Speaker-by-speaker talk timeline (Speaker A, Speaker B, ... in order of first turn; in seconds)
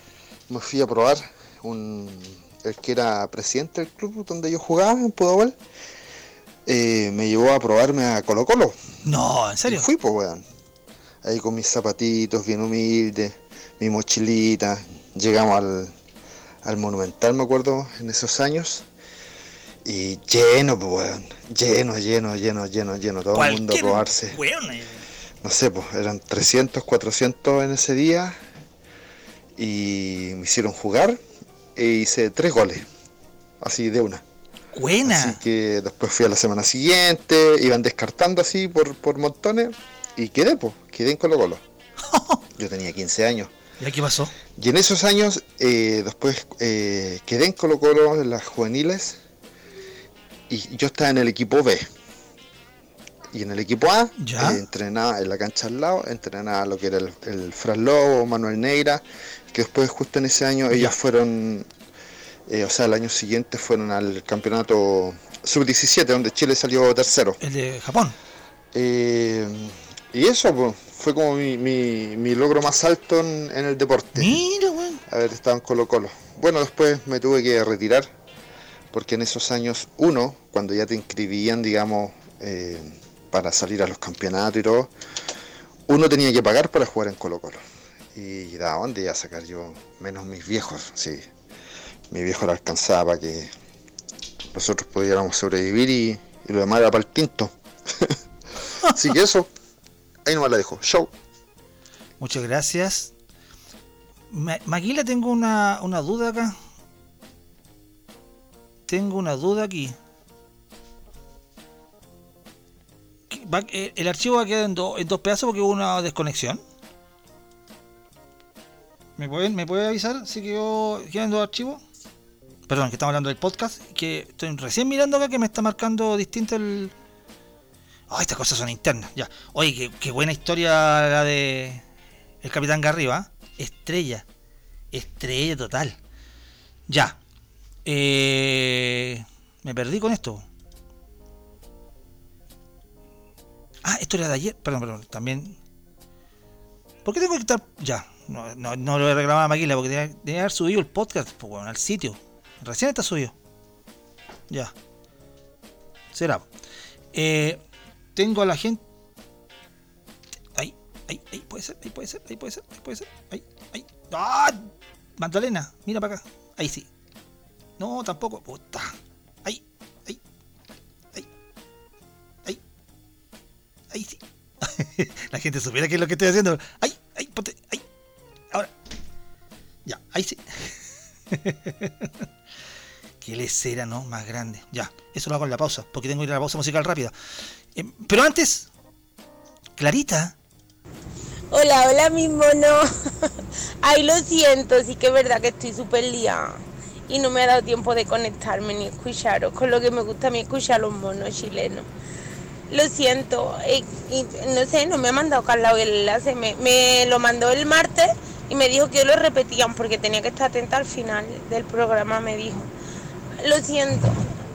Speaker A: 0.5-5.5, 6.7-8.8, 9.7-10.4, 11.2-15.9, 16.6-18.9, 19.9-24.4, 25.4-28.4, 29.6-31.2, 31.8-32.9, 33.6-34.2, 35.1-41.6, 42.6-43.5, 44.6-49.2, 50.5-51.9, 53.3-61.7, 62.5-67.4, 68.7-74.4, 75.1-78.1, 78.9-84.9, 85.9-87.6, 88.2-91.3, 92.1-93.5, 94.5-98.2, 99.0-99.5, 100.2-101.1
Speaker B: 9.1-9.9, 23.3-25.0, 34.7-35.4, 42.1-42.4, 43.8-44.3, 54.2-54.6, 67.4-68.2, 74.2-75.0, 102.2-103.1, 104.3-106.6, 108.9-110.0, 113.3-116.6, 119.2-121.8, 122.7-126.9, 128.1-131.8, 132.4-134.3, 134.9-136.0, 136.9-137.2, 137.8-140.4, 143.8-145.6, 147.1-153.3, 156.1-156.5, 157.1-157.6, 158.2-158.8, 160.6-166.9, 167.8-170.2, 173.9-177.8, 179.9-180.7, 181.3-182.1, 183.2-187.1, 187.8-188.7, 189.8-190.3
Speaker C: 191.5-192.9, 193.8-201.9, 202.7-212.7, 213.4-214.2